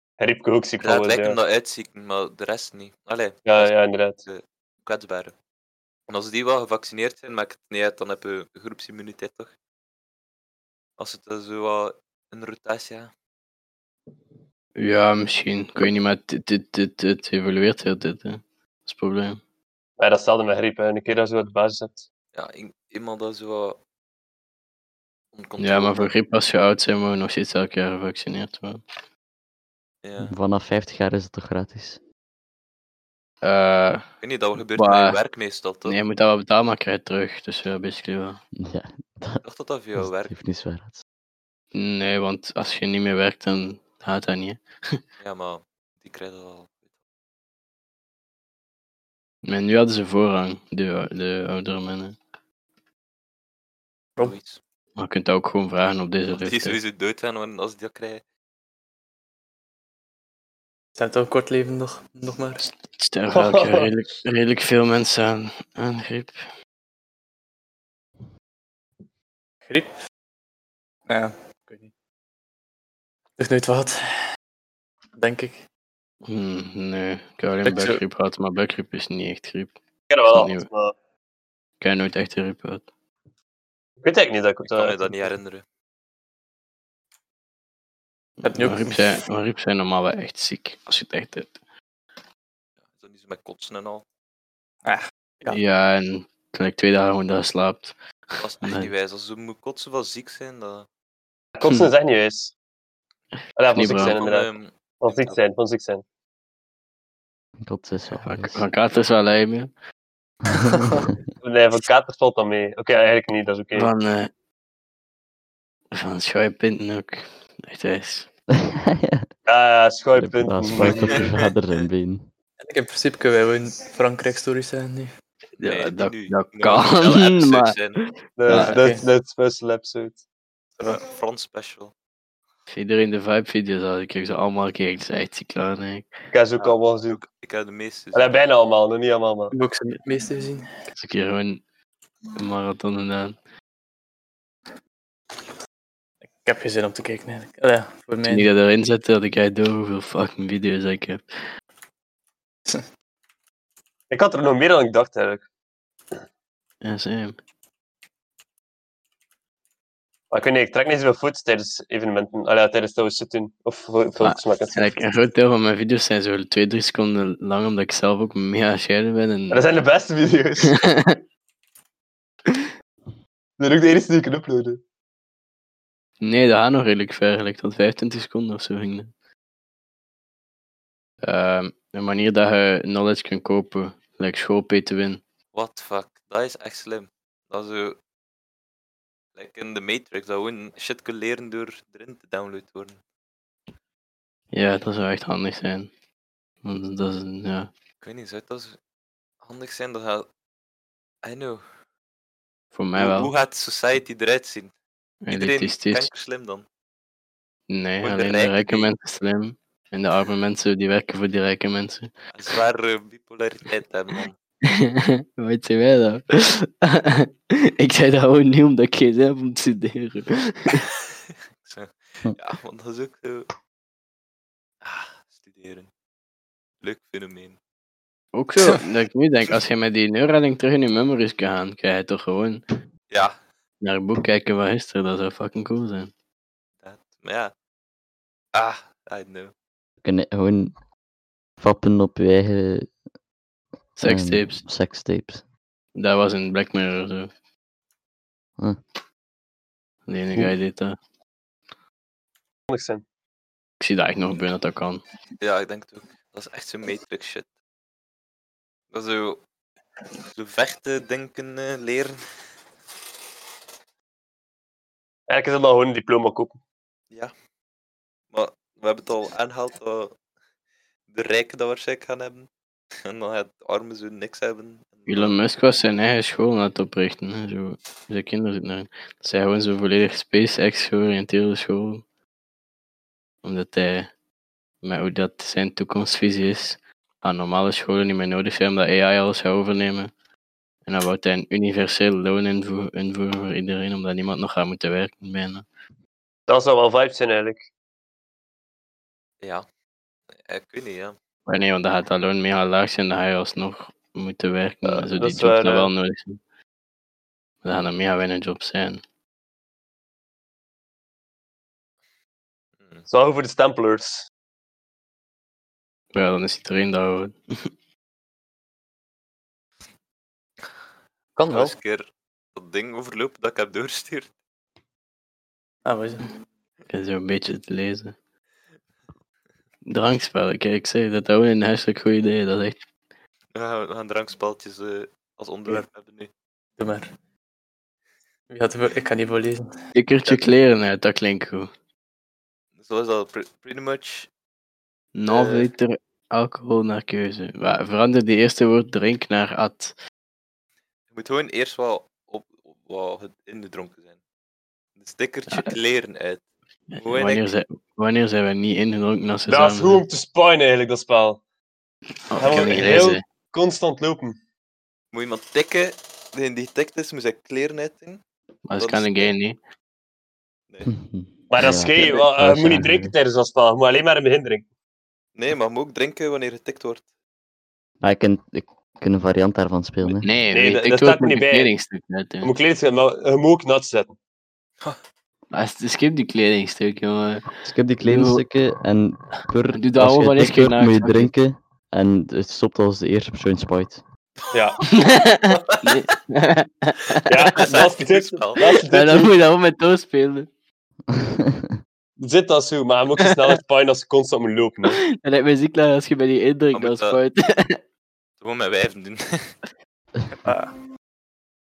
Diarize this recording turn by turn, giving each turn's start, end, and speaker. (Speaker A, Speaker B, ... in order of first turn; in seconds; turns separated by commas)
Speaker A: 0.2-1.4, Speaker B: 0.8-5.3, Speaker A: 3.5-4.2, Speaker B: 6.1-9.5, Speaker B: 11.0-13.1, Speaker C: 14.8-19.4, Speaker A: 20.0-22.0, Speaker B: 22.3-23.8, Speaker B: 25.3-26.1, Speaker C: 25.6-28.8, Speaker B: 30.0-30.3, Speaker D: 30.2-32.0, Speaker C: 33.4-34.1, Speaker B: 34.2-36.0, Speaker C: 34.7-35.2, Speaker C: 35.9-38.4, Speaker D: 38.5-39.4, Speaker B: 39.4-40.3, Speaker D: 40.0-41.0, Speaker C: 41.7-45.0, Speaker B: 45.2-46.8, Speaker C: 49.4-52.2, Speaker B: 54.2-54.6, Speaker C: 55.0-56.8, Speaker B: 56.3-58.2, Speaker E: 61.0-62.7, Speaker C: 63.0-66.4, Speaker A: 63.3-63.9, Speaker E: 71.1-71.9, Speaker E: 73.4-74.0, Speaker E: 75.2-75.6, Speaker C: 76.2-80.7, Speaker E: 77.6-78.0, Speaker A: 80.1-80.9, Speaker C: 81.8-82.8, Speaker A: 84.0-85.3, Speaker B: 84.7-85.6, Speaker C: 88.4-91.5, Speaker E: 88.4-89.2, Speaker B: 92.9-94.0, Speaker E: 94.8-95.6, Speaker C: 95.5-98.9, Speaker B: 98.4-100.9, Speaker A: 101.5-102.5, Speaker A: 103.5-104.5, Speaker C: 103.7-104.2, Speaker B: 104.0-105.4, Speaker A: 105.0-106.0, Speaker D: 107.6-108.6, Speaker C: 108.2-109.7, Speaker D: 110.5-111.2, Speaker A: 111.4-113.9, Speaker C: 113.7-114.3, Speaker C: 115.9-118.3, Speaker D: 118.6-119.2, Speaker A: 119.5-121.3, Speaker D: 120.2-122.3, Speaker B: 120.8-121.3, Speaker E: 122.6-125.1, Speaker C: 125.6-128.8, Speaker B: 125.6-128.0, Speaker A: 128.3-130.2, Speaker E: 128.5-129.1, Speaker B: 130.8-131.9, Speaker C: 132.7-136.1, Speaker A: 136.3-137.2, Speaker B: 136.6-138.4, Speaker A: 138.1-139.5, Speaker E: 139.5-140.7, Speaker C: 140.9-141.6, Speaker C: 142.3-143.3, Speaker E: 146.4-148.5, Speaker C: 148.2-151.2, Speaker A: 154.1-155.4, Speaker C: 156.8-157.4, Speaker A: 160.3-164.9, Speaker C: 164.2-169.7, Speaker A: 169.5-170.7, Speaker C: 170.6-171.2, Speaker A: 173.6-174.8, Speaker C: 176.2-179.1, Speaker C: 181.2-185.2, Speaker B: 185.5-188.0, Speaker B: 189.3-193.0, Speaker C: 194.5-195.9, Speaker C: 196.6-197.7, Speaker B: 198.0-198.8, Speaker B: 199.4-200.3, Speaker B: 201.2-201.6, Speaker C: 202.7-203.3, Speaker B: 202.9-204.7, Speaker C: 205.2-206.1, Speaker B: 205.3-206.6, Speaker C: 207.7-212.1, Speaker B: 208.0-208.9, Speaker B: 212.3-214.3, Speaker C: 214.6-220.9, Speaker B: 221.6-223.5, Speaker B: 224.8-225.9, Speaker B: 226.8-227.6, Speaker C: 228.3-232.6, Speaker B: 233.1-233.4, Speaker C: 233.8-236.1, Speaker B: 236.8-237.5, Speaker B: 238.5-239.5, Speaker D: 240.0-240.8, Speaker D: 241.6-242.9, Speaker C: 244.0-244.6, Speaker D: 244.0-245.4, Speaker C: 245.9-247.3, Speaker C: 250.1-251.0, Speaker A: 252.7-253.0, Speaker C: 253.8-255.0, Speaker B: 255.4-257.5, Speaker B: 258.9-259.4, Speaker B: 260.3-262.2, Speaker A: 265.3-266.6, Speaker B: 268.3-270.2, Speaker B: 271.1-272.5, Speaker B: 273.0-275.4, Speaker C: 275.1-282.0, Speaker C: 283.4-284.1, Speaker C: 284.8-290.1, Speaker C: 290.9-295.6, Speaker A: 296.5-297.6, Speaker B: 300.4-301.1, Speaker C: 301.4-306.4, Speaker A: 304.9-305.9, Speaker C: 307.6-309.0, Speaker A: 313.1-314.2, Speaker C: 316.1-317.7, Speaker E: 321.4-321.7, Speaker B: 321.5-324.3, Speaker E: 325.8-326.3, Speaker C: 326.9-328.1, Speaker C: 329.9-332.8, Speaker B: 333.5-336.3, Speaker E: 336.8-337.1, Speaker E: 338.5-339.7, Speaker C: 339.9-341.7, Speaker B: 342.8-344.3, Speaker C: 345.1-349.9, Speaker B: 351.1-354.2, Speaker B: 355.0-356.4, Speaker C: 355.5-355.7, Speaker C: 356.9-360.0, Speaker B: 357.0-357.4, Speaker A: 359.5-361.4, Speaker C: 362.3-363.2, Speaker A: 362.4-364.4, Speaker B: 362.7-363.0, Speaker B: 365.1-368.2, Speaker C: 368.6-369.6, Speaker B: 368.8-369.3, Speaker D: 370.8-373.1, Speaker A: 371.5-374.6, Speaker B: 375.4-377.0, Speaker D: 378.0-380.3, Speaker C: 380.2-382.5, Speaker A: 380.5-381.7, Speaker A: 382.4-384.1, Speaker C: 385.5-387.4, Speaker D: 387.6-394.0, Speaker C: 388.0-388.4, Speaker C: 389.7-391.3, Speaker A: 394.5-394.8, Speaker C: 394.8-397.5, Speaker A: 397.3-399.3, Speaker B: 397.6-398.8, Speaker C: 398.8-400.5, Speaker D: 401.1-401.7, Speaker A: 402.2-405.0, Speaker C: 404.8-407.8, Speaker B: 406.7-407.2, Speaker B: 408.4-409.5, Speaker E: 410.4-410.7